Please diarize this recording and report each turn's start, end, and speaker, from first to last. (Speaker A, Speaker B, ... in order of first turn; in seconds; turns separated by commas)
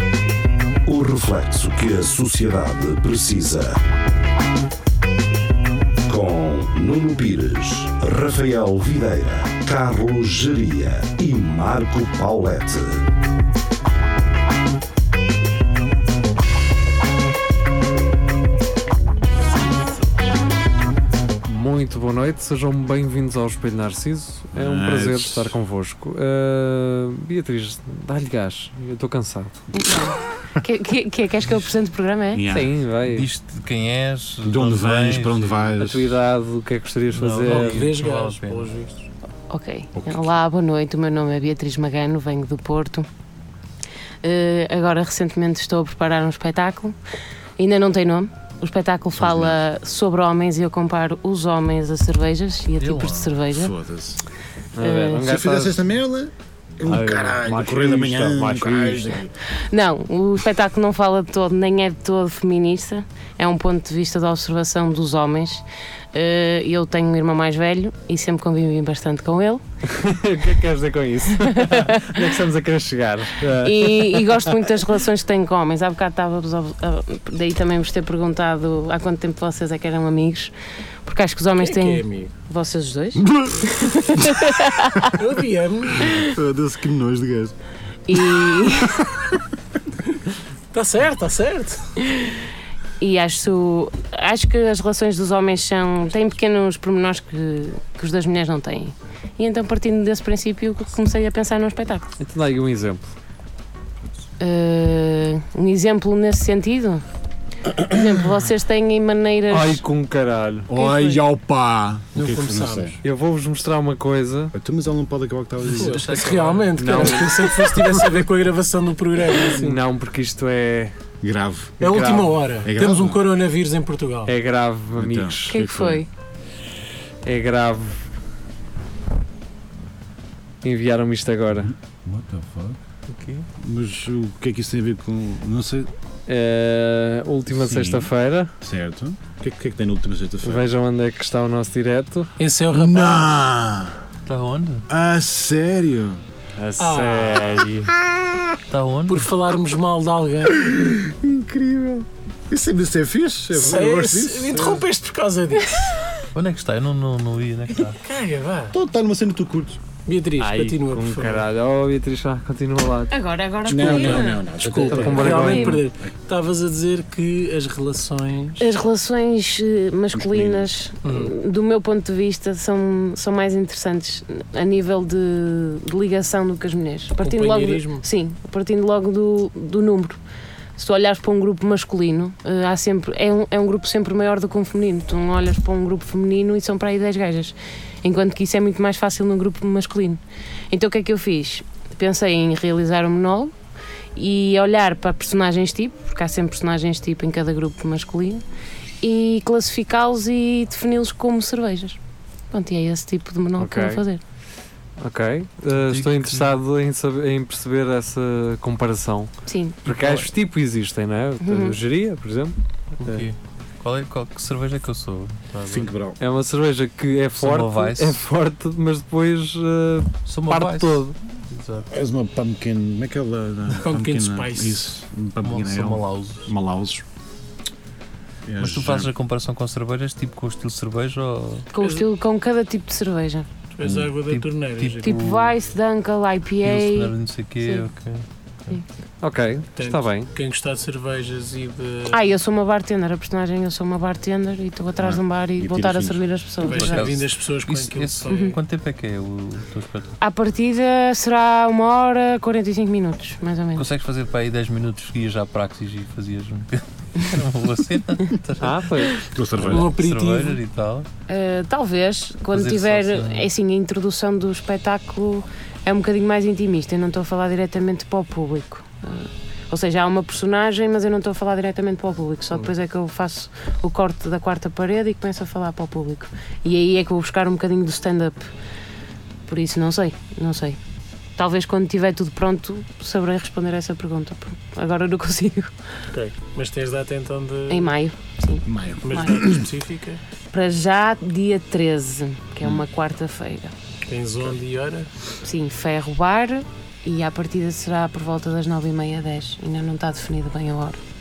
Speaker A: 0.8-3.8, Speaker A: 6.1-13.0, Speaker B: 21.4-29.5, Speaker C: 24.5-25.5, Speaker D: 29.7-32.5, Speaker C: 32.3-32.7, Speaker B: 32.5-33.3, Speaker E: 33.1-35.7, Speaker C: 34.4-36.2, Speaker B: 35.8-37.8, Speaker E: 37.1-38.7, Speaker F: 37.4-39.0, Speaker D: 39.5-43.1, Speaker C: 39.9-40.4, Speaker D: 44.2-47.0, Speaker D: 47.6-53.7, Speaker C: 49.1-49.6, Speaker E: 52.8-53.4, Speaker C: 53.5-54.2, Speaker B: 54.8-55.8, Speaker D: 54.8-55.2, Speaker C: 55.2-59.3, Speaker B: 56.9-59.1, Speaker D: 59.7-69.6, Speaker B: 69.9-74.5, Speaker D: 71.4-72.3, Speaker D: 73.5-80.5, Speaker D: 81.0-85.1, Speaker F: 81.6-82.3, Speaker C: 83.2-84.2, Speaker F: 85.2-86.1, Speaker D: 86.0-86.3, Speaker C: 86.2-87.5, Speaker D: 88.1-89.0, Speaker C: 88.1-89.4, Speaker F: 90.7-91.8, Speaker D: 93.0-102.1, Speaker B: 102.2-103.1, Speaker D: 104.4-107.0, Speaker D: 107.8-109.8, Speaker B: 109.5-110.7, Speaker C: 110.7-112.9, Speaker D: 110.8-111.2, Speaker F: 112.1-113.0, Speaker B: 113.0-114.5, Speaker C: 114.5-116.2, Speaker F: 115.7-119.8, Speaker E: 115.8-117.0, Speaker B: 116.8-117.3, Speaker B: 119.5-120.9, Speaker C: 121.2-121.8, Speaker B: 121.8-122.3, Speaker F: 121.8-124.3, Speaker C: 122.6-123.2, Speaker B: 124.3-125.6, Speaker C: 125.0-126.0, Speaker D: 125.5-126.1, Speaker B: 127.2-128.0, Speaker B: 130.6-131.7, Speaker C: 131.5-132.8, Speaker C: 133.6-135.9, Speaker B: 136.3-138.5, Speaker C: 137.5-140.7, Speaker B: 140.4-142.3, Speaker F: 142.4-143.3, Speaker C: 142.7-143.9, Speaker E: 144.2-144.8, Speaker C: 144.9-146.2, Speaker B: 146.6-147.9, Speaker F: 146.8-147.6, Speaker C: 148.1-148.4, Speaker E: 148.7-149.3, Speaker F: 149.1-150.6, Speaker C: 150.6-154.8, Speaker F: 153.6-155.9, Speaker E: 156.3-158.0, Speaker F: 158.0-158.7, Speaker C: 158.7-159.8, Speaker F: 160.1-161.4, Speaker B: 160.4-163.1, Speaker D: 163.1-164.5, Speaker C: 163.6-165.7, Speaker F: 163.8-168.7, Speaker B: 164.8-165.8, Speaker D: 165.1-165.8, Speaker D: 168.6-180.2, Speaker C: 170.1-170.7, Speaker F: 171.0-171.3, Speaker F: 177.2-178.0, Speaker D: 180.8-193.5, Speaker D: 194.2-198.4, Speaker D: 199.0-202.0, Speaker D: 202.5-204.2, Speaker B: 203.6-204.0, Speaker B: 205.0-209.3, Speaker E: 205.7-206.6, Speaker D: 209.5-209.8, Speaker B: 209.8-213.3, Speaker D: 211.4-211.8, Speaker E: 213.0-215.9, Speaker C: 215.7-216.2, Speaker B: 216.2-221.1, Speaker E: 217.4-218.2, Speaker E: 220.2-221.9, Speaker C: 221.9-227.0, Speaker F: 223.8-224.9, Speaker E: 225.4-226.5, Speaker C: 228.4-229.1, Speaker E: 228.6-231.7, Speaker D: 231.7-233.5, Speaker F: 231.8-232.1, Speaker F: 233.7-235.2, Speaker E: 234.3-235.6, Speaker D: 235.0-237.8, Speaker E: 236.6-238.8, Speaker B: 239.2-240.3, Speaker F: 239.8-242.2, Speaker D: 242.1-247.1, Speaker C: 245.0-246.3, Speaker F: 246.6-248.6, Speaker E: 246.6-250.2, Speaker D: 248.3-248.5, Speaker D: 250.2-253.9, Speaker E: 253.8-261.1, Speaker B: 258.6-259.1, Speaker C: 259.3-259.9, Speaker F: 259.7-260.6, Speaker D: 261.3-278.5, Speaker E: 262.5-263.5, Speaker D: 279.5-280.8, Speaker D: 281.4-285.7, Speaker F: 286.1-287.9, Speaker D: 287.7-289.4, Speaker C: 288.6-289.7, Speaker F: 289.0-290.2, Speaker D: 290.5-293.7, Speaker F: 294.1-295.1, Speaker D: 295.4-301.0